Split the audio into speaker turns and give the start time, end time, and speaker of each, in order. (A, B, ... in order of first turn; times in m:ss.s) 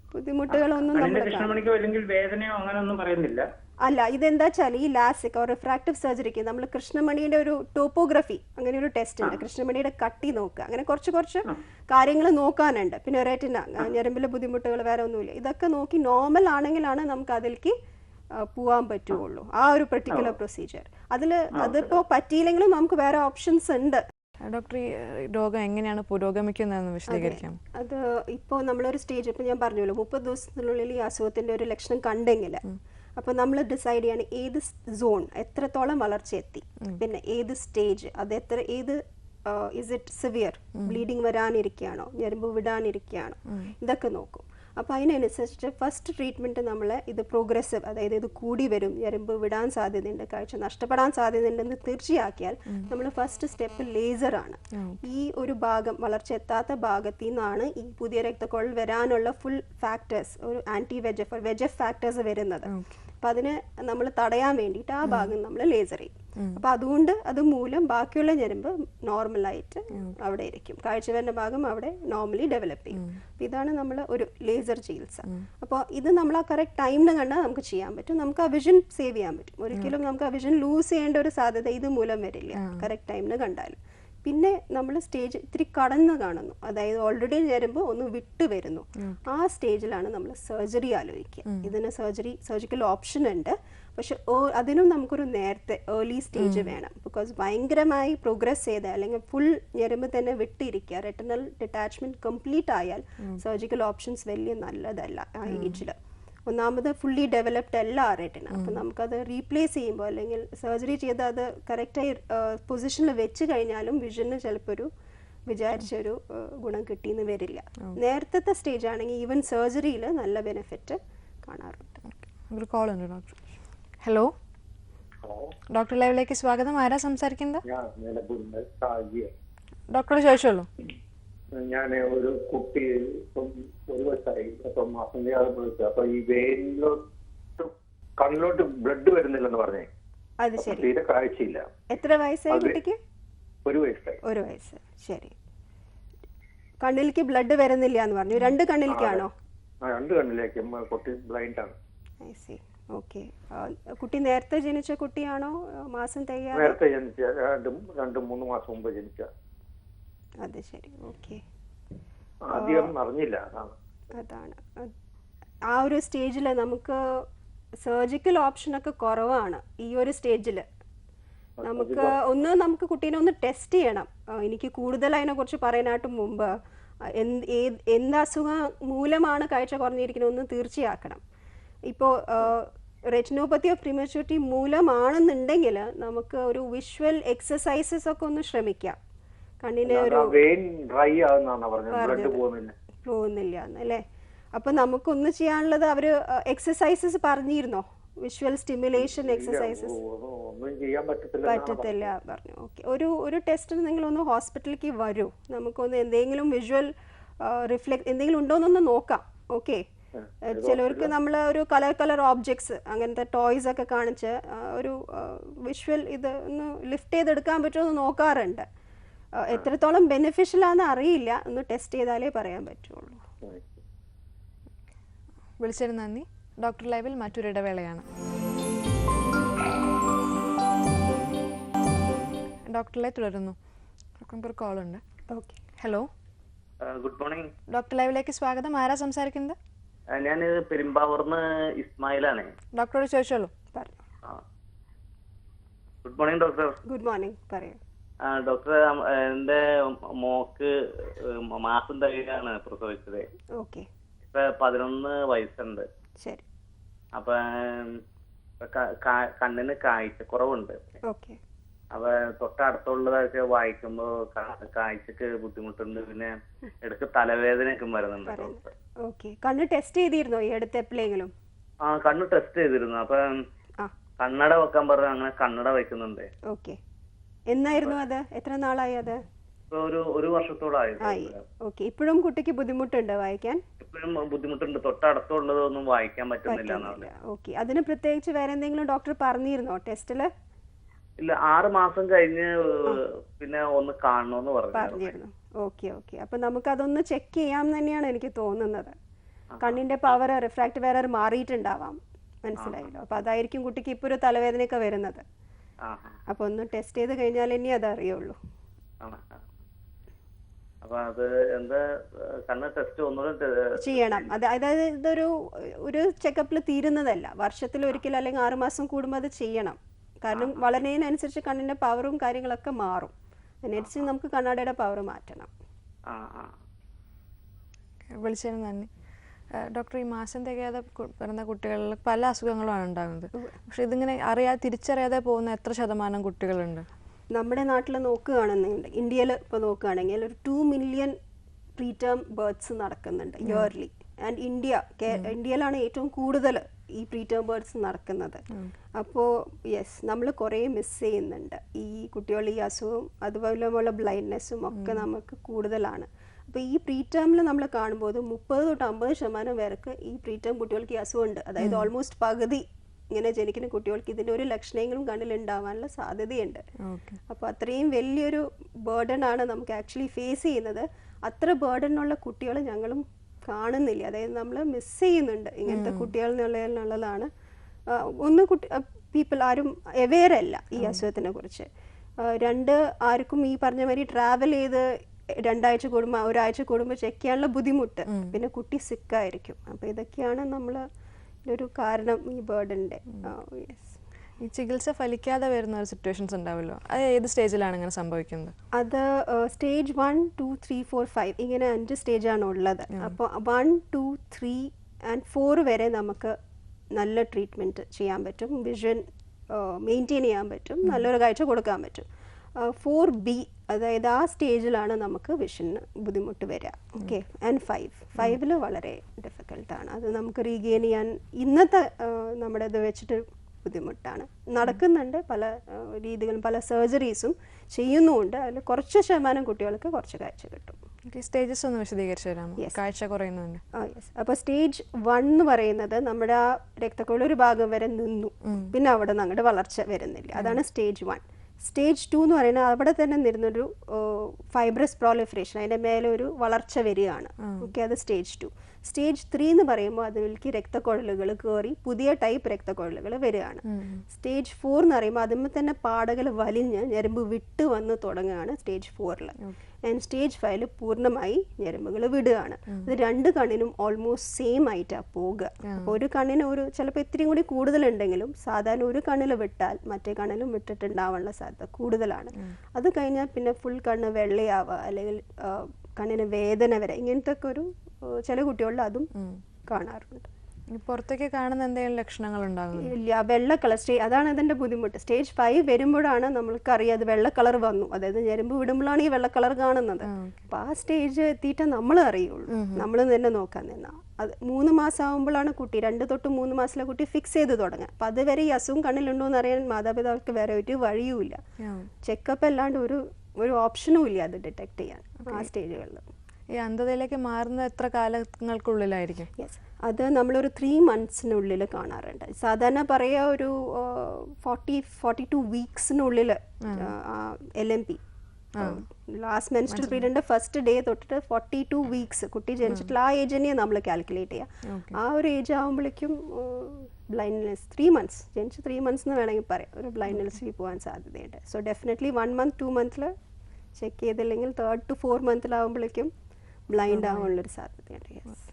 0:00.1-0:01.7 A
0:00.5-0:03.4 B
0:03.8-0:17.8 A
0:18.4-0:24.0 A
0:21.6-0:21.9 B
0:24.4-0:27.6 C
0:27.1-0:32.6 A
0:33.2-1:46.0 A
0:54.7-0:55.0 C
1:02.7-1:03.0 C
1:05.1-1:05.3 C
1:06.4-1:06.6 C
1:22.6-1:22.9 C
1:31.5-1:31.7 C
1:36.4-1:36.7 C
1:45.5-1:45.8 C
1:46.5-1:54.9 A
1:48.5-1:48.8 C
1:55.5-2:02.0 A
2:02.5-2:03.4 C
2:04.0-2:04.3 C
2:05.2-2:05.5 D
2:05.7-2:07.6 C
2:07.6-2:09.3 D
2:09.9-2:10.7 C
2:11.6-2:17.0 D
2:17.6-2:19.9 D
2:20.4-2:20.9 A
2:20.6-2:21.7 D
2:21.9-2:23.0 A
2:22.5-2:22.8 D
2:23.6-2:24.2 D
2:24.2-2:25.4 A
2:26.8-2:29.3 A
2:28.9-2:29.3 D
2:29.9-2:31.8 D
2:32.2-2:36.8 A
2:36.5-2:39.3 D
2:40.4-2:41.4 A
2:42.4-2:43.8 D
2:42.6-2:42.9 A
2:44.1-2:44.9 A
2:45.7-2:47.2 A
2:47.8-2:50.6 A
2:51.6-2:52.1 D
2:51.6-2:56.6 A
2:57.1-3:01.2 A
3:01.9-3:09.0 A
3:09.6-3:10.4 A
3:09.9-3:12.7 D
3:11.9-3:12.4 A
3:13.0-3:14.0 A
3:14.5-3:20.0 A
3:19.0-3:22.1 D
3:21.4-3:29.8 A
3:30.2-3:31.1 D
3:30.5-3:38.7 A
3:39.4-3:43.2 A
3:43.4-3:43.8 D
3:45.6-3:48.0 C
3:52.7-3:53.6 C
3:54.2-3:55.0 C
3:55.3-3:55.6 A
3:55.8-3:56.1 C
3:56.8-3:57.5 E
3:57.7-3:59.6 C
4:00.1-4:02.5 E
4:02.8-4:03.5 C
4:03.7-4:04.0 A
4:06.0-4:06.8 E
4:06.9-4:07.8 A
4:08.3-4:13.3 E
4:13.6-4:13.9 A
4:14.3-4:15.9 E
4:17.2-4:18.0 E
4:18.6-4:20.8 E
4:21.0-4:21.4 A
4:21.9-4:28.7 E
4:28.3-4:31.3 A
4:31.8-4:33.4 E
4:34.2-4:36.3 E
4:36.5-4:36.8 A
4:37.5-4:39.2 A
4:39.7-4:41.4 E
4:41.0-4:43.6 A
4:43.8-4:47.1 E
4:46.5-4:50.3 A
4:51.2-4:55.1 E
4:54.7-4:59.0 A
4:59.5-4:59.8 E
4:59.6-5:05.2 A
5:02.6-5:02.9 E
5:05.8-5:06.2 E
5:06.3-5:08.4 A
5:09.0-5:09.4 E
5:10.8-5:14.3 E
5:13.8-5:25.5 A
5:20.3-5:20.6 E
5:23.8-5:24.1 E
5:26.1-5:26.6 E
5:28.2-5:28.9 C
5:29.6-5:36.9 C
5:37.3-5:41.2 A
5:41.8-5:48.4 A
5:48.9-6:06.6 A
5:54.7-5:55.0 C
6:01.6-6:01.9 C
6:06.8-6:07.2 C
6:07.3-6:17.3 A
6:15.7-6:16.1 C
6:17.9-6:21.7 A
6:22.2-6:30.8 A
6:28.1-6:28.4 C
6:31.5-6:34.0 A
6:34.4-6:38.5 C
6:38.7-6:46.4 A
6:42.9-6:43.2 C
6:47.0-7:10.8 A
7:11.1-7:13.6 C
7:13.7-7:59.1 A
7:20.4-7:20.6 C
7:27.4-7:27.7 C
7:33.7-7:34.0 C
7:45.7-7:46.0 C
7:59.2-7:59.4 C
7:59.7-8:00.3 A
8:00.7-8:02.9 C
8:02.8-8:21.4 A
8:10.0-8:10.5 C
8:12.5-8:12.9 C
8:21.6-8:21.9 C
8:22.0-8:26.1 A
8:26.6-8:29.3 C
8:29.4-8:38.0 A
8:38.6-8:38.8 C
8:38.6-8:53.1 A
8:39.7-8:40.1 C
8:44.7-8:45.0 C
8:53.8-8:56.1 A
8:56.7-8:58.4 A
8:56.9-8:57.3 C